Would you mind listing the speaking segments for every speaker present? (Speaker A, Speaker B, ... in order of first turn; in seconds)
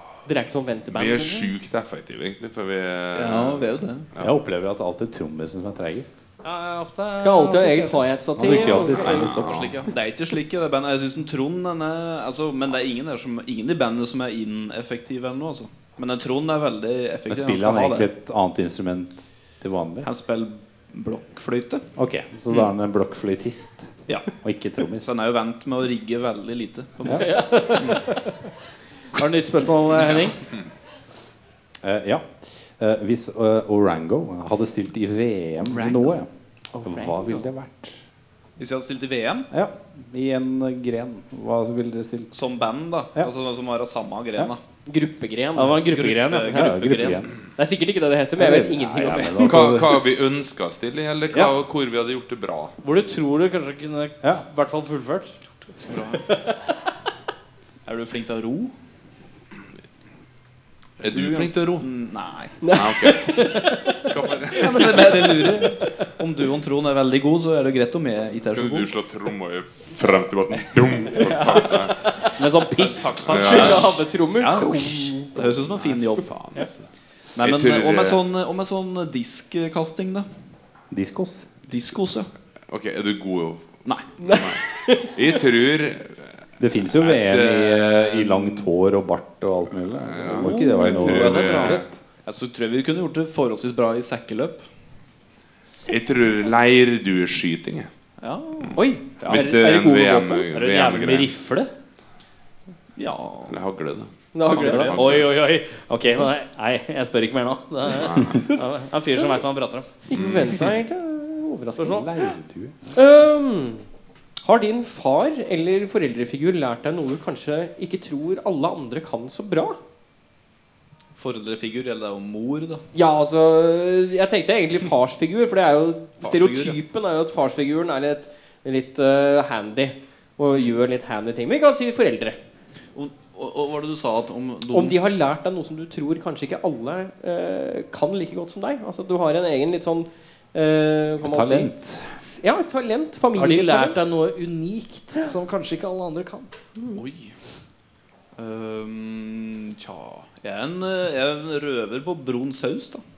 Speaker A: 0.3-1.5, 7.2-9.4, 36.7-37.4, 44.9-45.8, 47.6-49.7, 56.3-56.6, 62.6-65.9, 71.3-71.6, 73.3-75.4, 84.2-85.2, 90.4-91.8, 98.7-100.5, 104.3-105.0, 108.4-109.4, 110.1-112.1, 112.9-113.9, 114.4-119.8, 122.9-132.4, 134.7-144.1
Speaker B: 0.9-4.3, 9.2-9.8, 49.4-52.8, 61.0-61.9, 62.7-65.4, 68.5-72.2, 73.2-74.0, 75.7-76.2, 77.4-78.2, 82.7-86.3, 86.9-88.7, 90.1-91.9, 95.9-97.9, 98.6-101.3, 103.5-105.3, 107.9-108.5, 110.1-110.7
Speaker C: 3.1-4.1, 9.1-18.1, 20.0-21.9, 25.0-28.0, 35.7-36.1, 38.6-39.5, 42.3-44.6, 45.8-47.2, 55.8-56.2, 57.9-58.7, 61.1-62.6, 64.5-68.9, 72.8-76.7, 77.4-80.3, 81.7-82.3, 91.1-91.7, 92.2-94.6, 98.2-99.5, 103.0-103.6, 121.2-122.8, 126.2-126.8, 132.9-135.0, 146.9-147.3, 148.3-153.0
Speaker D: 4.2-6.2, 8.4-9.7, 17.3-20.1, 22.0-25.1, 31.8-36.3, 36.8-38.0, 39.5-42.4, 46.5-47.3, 48.4-50.0, 80.9-81.6, 86.6-92.0, 111.8-112.9, 141.2-142.2
Speaker E: 6.4-8.9, 27.1-28.1, 29.1-30.4, 45.6-46.8, 52.8-55.4, 72.4-73.8, 100.5-101.7, 104.5-109.9, 143.3-146.5